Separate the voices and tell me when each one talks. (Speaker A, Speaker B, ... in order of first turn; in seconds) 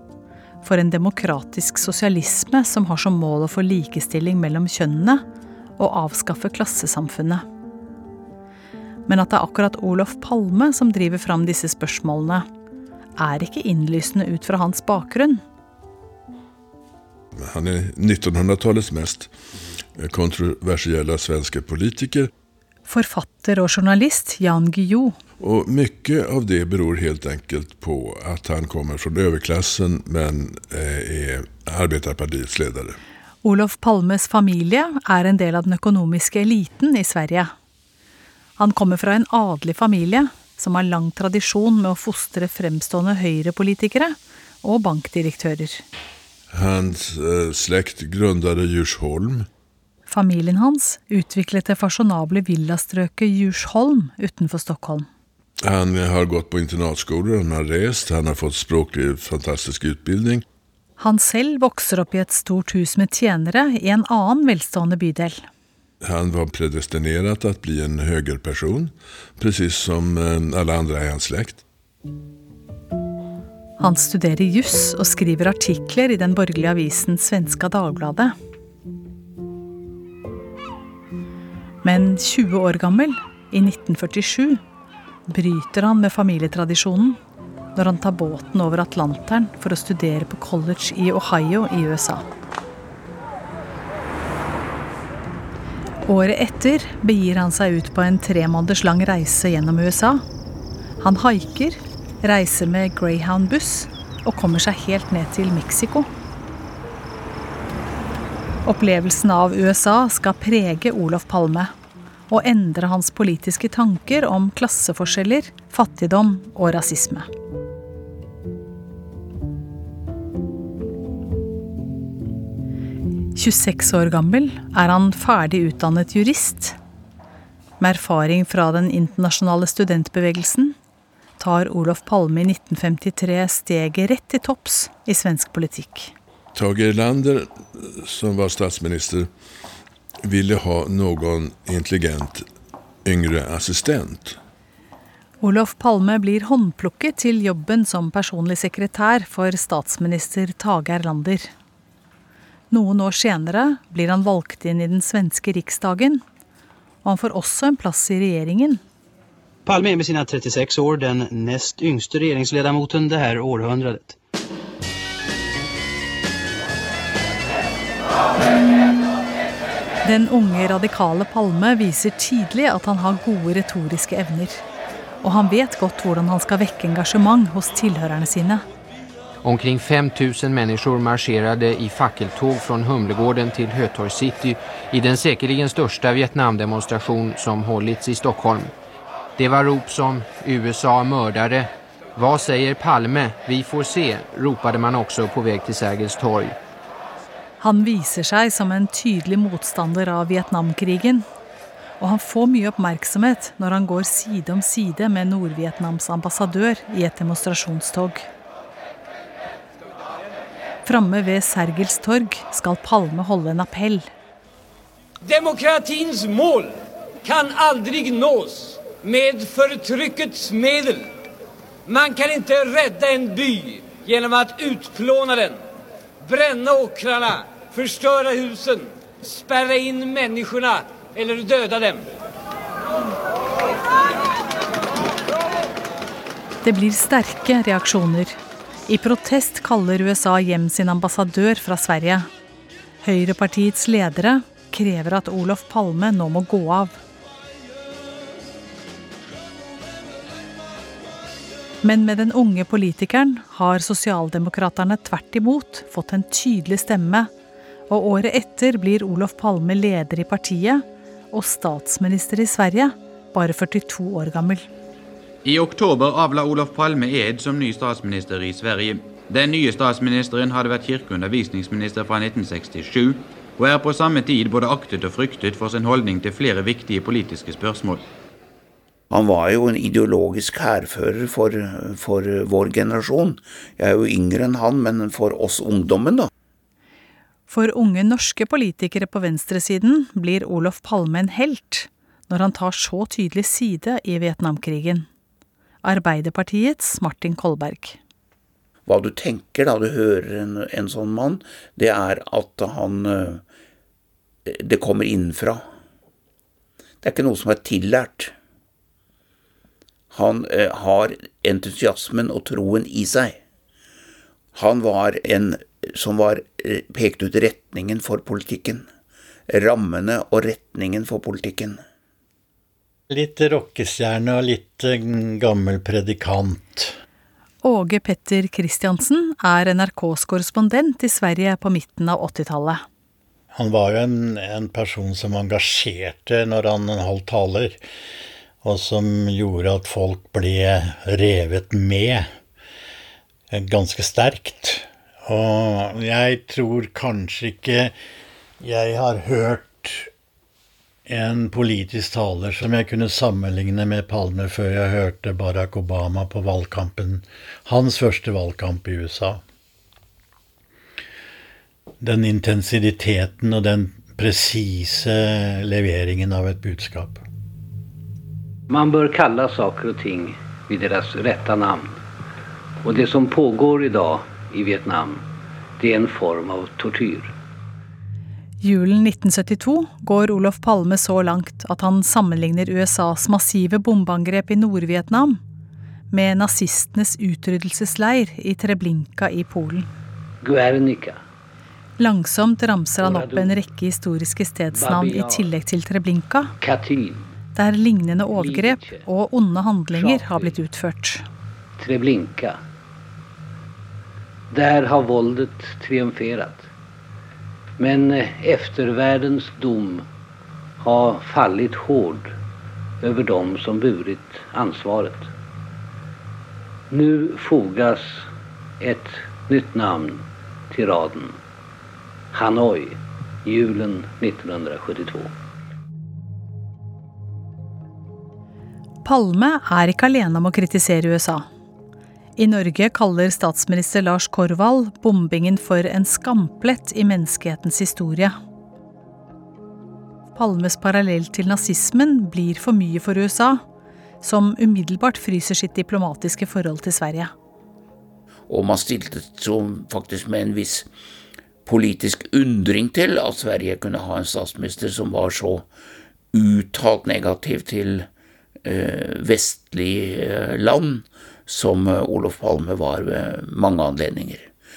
Speaker A: 0.6-5.2, 5.8-7.4, 9.1-12.4, 13.2-15.4, 22.9-25.2, 33.4-37.5, 38.6-45.8, 50.1-55.1, 61.0-65.5, 73.8-78.3, 81.8-84.6, 85.3-87.2, 87.8-92.3, 96.0-100.2, 101.0-106.1, 108.7-111.7, 112.3-117.3, 123.3-126.8, 127.8-130.8, 131.4-136.1, 145.4-151.5, 152.7-156.2, 157.0-158.8, 170.0-174.6, 175.2-178.6, 197.6-201.2, 202.0-208.3, 210.8-214.1, 236.6-242.3, 243.0-247.0, 251.8-257.3, 257.9-264.6, 287.5-295.1, 295.8-298.0, 327.6-332.8, 378.6-385.4, 386.1-389.9, 392.0-396.5, 397.5-401.2, 429.0-431.5, 432.4-438.3, 440.3-443.6, 444.2-447.3
Speaker B: 17.4-19.3, 20.0-22.3, 25.4-33.0, 46.5-49.5, 55.6-60.4, 66.0-71.6, 136.5-139.3, 140.2-142.4, 143.1-144.4
Speaker C: 159.7-164.2
Speaker D: 179.4-188.7, 189.4-196.6
Speaker E: 215.2-221.1, 221.8-225.6, 226.2-232.1
Speaker F: 265.4-278.0
Speaker G: 279.1-286.3, 298.9-303.4, 304.4-305.6, 307.0-308.3, 310.1-313.4, 314.5-318.9, 319.5-321.8, 448.5-450.9, 451.6-455.6, 456.3-458.1, 458.6-464.5
Speaker H: 323.1-326.9, 333.5-337.8, 338.6-342.3, 343.5-347.9, 348.6-350.1, 351.1-359.4, 362.0-367.2
Speaker I: 368.7-372.0, 372.8-375.2, 375.8-377.3, 390.4-391.2, 393.0-393.6, 394.7-395.5, 396.6-397.3, 398.4-399.1, 399.9-400.6, 401.8-402.6, 404.5-406.7, 407.8-410.0, 410.8-412.3, 413.0-415.3, 416.9-418.3, 418.8-421.4, 422.3-425.3